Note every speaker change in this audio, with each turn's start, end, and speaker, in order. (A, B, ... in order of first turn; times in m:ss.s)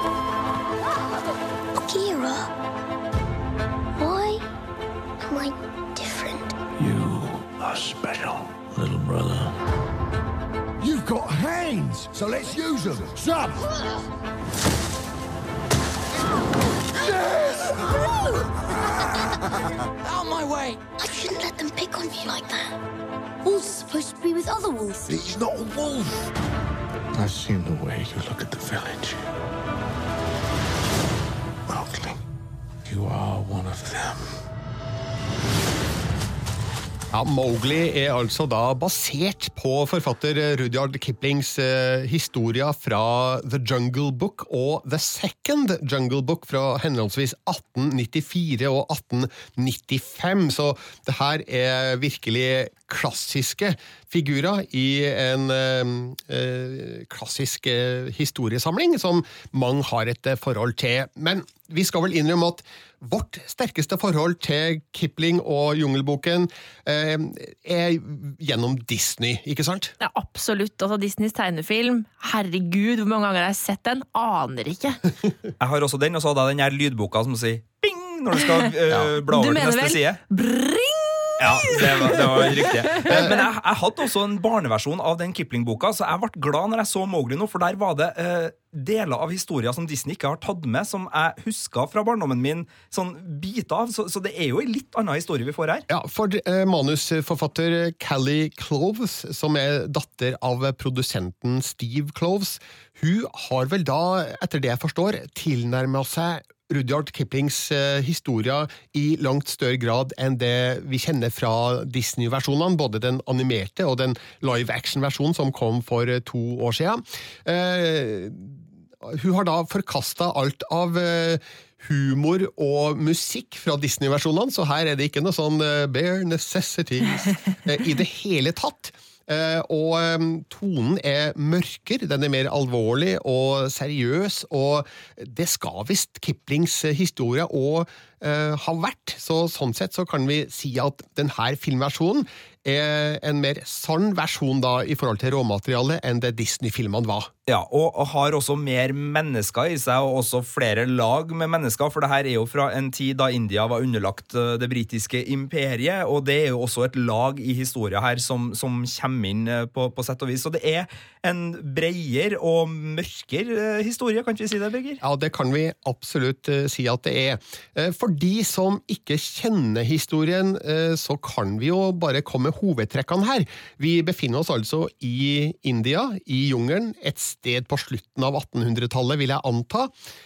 0:01.7-0:02.5 A
0:04.0-0:04.4 A
0:05.2-0:06.5 A
0:06.8-0:09.5 B
0:10.8-0:13.6 C
0:17.0-0:18.0 C
0:21.0-0:22.7 A
0:23.4-0:25.2 A
0:25.1-0:26.3 C
0:27.2-0:29.2 B
0:31.7-0:32.2 B
0:32.9-0:34.3 B
0:37.1-1:09.9 D
1:10.0-1:15.0 E
1:15.6-1:20.2 F
1:19.3-1:23.4 E
1:21.4-1:35.8 F
1:23.1-1:23.4 D
1:35.9-2:27.3 D
2:27.5-2:45.0 F
2:45.0-2:59.9 D